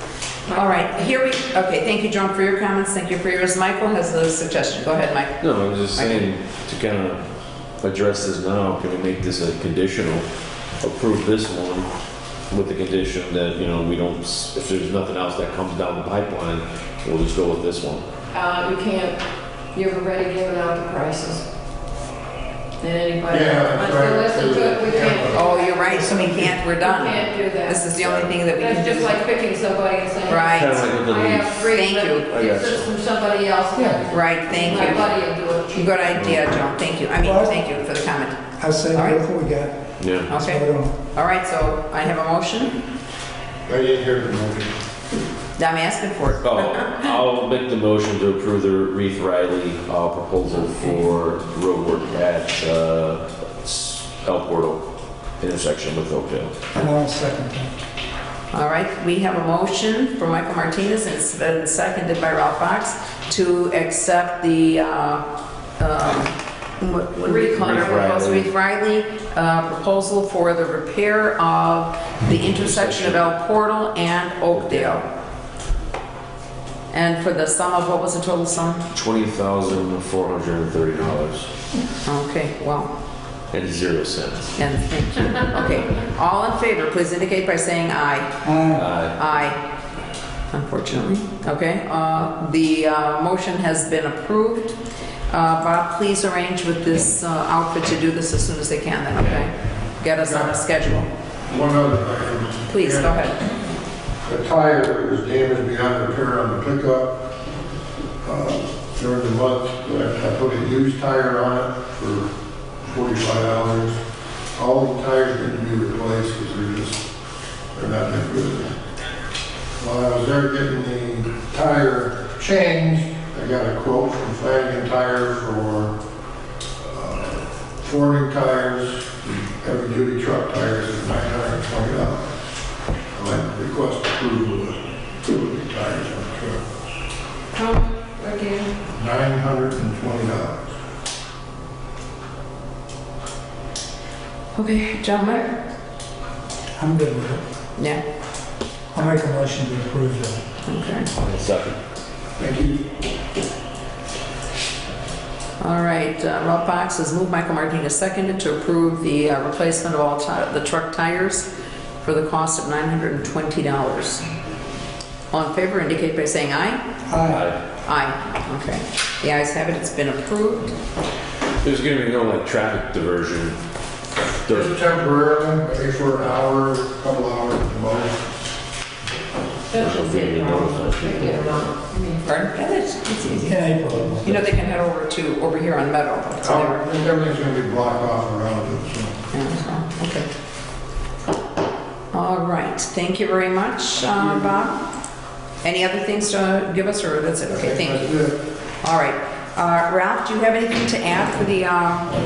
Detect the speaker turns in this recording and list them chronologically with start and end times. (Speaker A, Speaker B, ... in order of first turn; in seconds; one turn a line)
Speaker A: 0.5-1.1
Speaker B: 0.5-6.3
Speaker C: 5.4-7.2
Speaker C: 7.8-10.2
Speaker C: 10.8-11.9
Speaker C: 12.5-18.0
Speaker A: 18.3-19.2
Speaker A: 19.7-21.4
Speaker A: 22.8-26.0
Speaker D: 23.3-25.4
Speaker B: 25.3-29.2
Speaker E: 25.9-26.6
Speaker A: 26.7-27.9
Speaker C: 28.0-28.3
Speaker A: 28.5-36.0
Speaker B: 30.3-30.9
Speaker C: 30.5-31.7
Speaker B: 31.7-32.3
Speaker C: 32.2-32.9
Speaker E: 33.7-34.0
Speaker B: 34.0-35.1
Speaker C: 34.6-34.9
Speaker B: 35.7-38.4
Speaker E: 37.2-37.6
Speaker E: 38.6-40.9
Speaker B: 38.9-39.2
Speaker C: 40.0-40.3
Speaker B: 40.3-42.8
Speaker D: 43.6-44.7
Speaker B: 45.6-47.1
Speaker C: 46.4-54.8
Speaker C: 55.4-56.5
Speaker E: 56.8-57.7
Speaker B: 58.5-65.2
Speaker B: 65.8-75.0
Speaker C: 67.2-68.5
Speaker A: 67.2-68.0
Speaker C: 72.3-73.2
Speaker C: 74.5-75.1
Speaker B: 76.9-78.8
Speaker C: 78.9-81.5
Speaker B: 82.0-82.9
Speaker C: 83.5-84.5
Speaker B: 84.6-88.5
Speaker E: 88.4-88.8
Speaker C: 88.7-89.2
Speaker B: 89.0-89.6
Speaker B: 90.5-94.7
Speaker B: 95.3-101.1
Speaker D: 100.2-100.5
Speaker D: 101.5-103.4
Speaker B: 102.7-103.4
Speaker D: 104.2-107.3
Speaker D: 108.2-112.3
Speaker D: 112.8-114.0
Speaker D: 114.5-117.0
Speaker D: 117.7-118.8
Speaker D: 119.8-125.9
Speaker D: 126.8-132.3
Speaker D: 133.1-136.6
Speaker A: 137.5-138.7
Speaker D: 138.9-140.7
Speaker B: 144.5-145.6
Speaker E: 146.8-147.4
Speaker B: 147.8-148.0
Speaker E: 148.9-150.4
Speaker B: 150.7-151.1
Speaker C: 151.2-151.8
Speaker D: 152.4-152.9
Speaker B: 155.6-161.4
Speaker B: 162.0-164.2
Speaker B: 165.3-166.8
Speaker E: 167.1-167.4
Speaker C: 167.2-167.6
Speaker B: 167.8-170.7
Speaker C: 171.6-173.6
Speaker C: 174.4-174.7
Speaker D: 174.5-178.2
Speaker A: 179.7-182.2
Speaker C: 179.7-181.7
Speaker B: 182.2-183.5
Speaker E: 183.2-184.4
Speaker B: 184.2-186.8
Speaker D: 186.4-189.2
Speaker B: 189.3-190.3
Speaker B: 192.1-194.8
Speaker B: 195.6-198.2
Speaker D: 197.5-198.4
Speaker B: 198.8-202.1